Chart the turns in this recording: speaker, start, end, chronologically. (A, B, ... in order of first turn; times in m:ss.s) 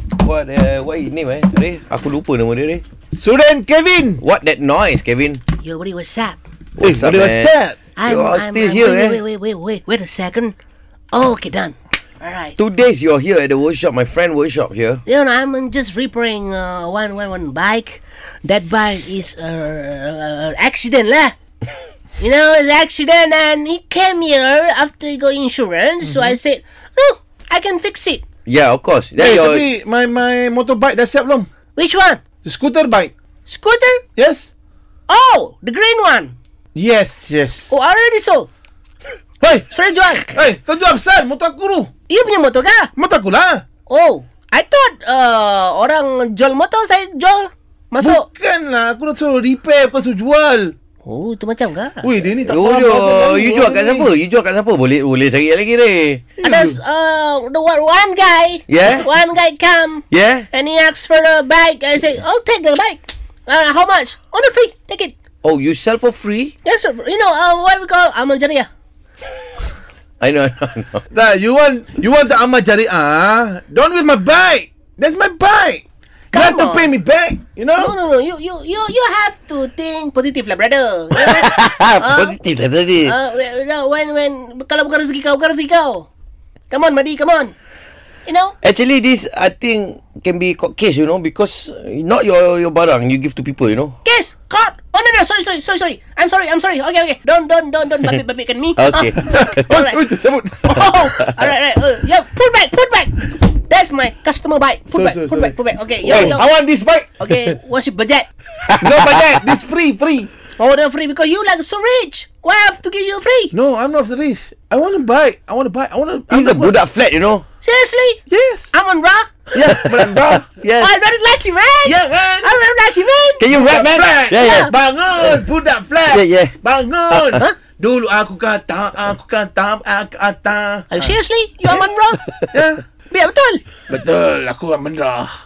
0:00.2-0:02.8 A
0:03.1-0:04.2 B
0:04.2-0:05.4 A
0:05.6-0:06.4 C
0:06.8-0:09.2 A
0:06.8-0:07.8 B
0:08.0-0:10.6 C
0:11.1-0:12.6 C
0:12.6-0:15.0 A
0:15.1-0:21.4 C
0:22.2-0:28.2 C
0:28.5-0:29.7 A
0:29.2-0:31.5 B
0:31.8-0:32.2 C
0:32.4-0:33.1 B
0:33.5-0:34.0 C
0:34.2-0:34.5 B
0:35.1-0:36.4 C
0:36.8-0:37.7 B
0:37.7-0:38.5 C
0:39.4-0:39.7 B
0:39.7-0:40.4 C
0:40.4-0:41.9 B
0:42.1-0:42.9 C
0:43.0-0:43.6 B
0:43.9-0:48.3 C
0:48.0-0:50.8 B
0:51.0-0:52.1 C
0:52.0-0:54.1 B
0:52.4-0:56.3 A
0:56.4-0:56.8 B
0:56.4-1:05.1 C
0:58.7-0:59.1 A
1:00.1-1:00.5 A
1:05.4-1:06.5 A
1:06.6-1:08.7 C
1:10.2-1:11.0 A
1:11.1-1:17.9 B
1:16.3-1:16.9 C
1:17.8-1:22.4 C
1:21.2-1:23.2 A
1:23.0-1:26.1 C
1:26.7-1:27.5 C
1:28.3-1:28.6 C
1:28.6-1:34.0 A
1:34.0-1:40.0 C
1:38.8-1:39.7 A
1:39.2-1:41.1 B
1:40.7-1:46.5 C
1:44.9-1:47.5 B
1:46.1-1:46.4 A
1:47.2-1:48.3 C
1:48.7-1:49.4 A
1:48.8-1:50.3 B
1:50.6-1:53.5 C
1:53.5-1:56.8 B
1:56.3-1:57.4 A
1:57.6-1:58.2 C
1:58.3-1:58.7 B
1:58.7-1:59.4 C
1:59.5-2:00.4 B
1:59.6-2:00.9 A
2:00.8-2:03.4 C
2:01.8-2:02.5 B
2:03.4-2:05.4 A
2:03.4-2:11.1 B
2:04.4-2:04.7 C
2:06.1-2:06.6 A
2:07.1-2:07.4 A
2:10.9-2:12.2 C
2:12.5-2:12.8 B
2:13.1-2:13.6 C
2:13.9-2:15.3 B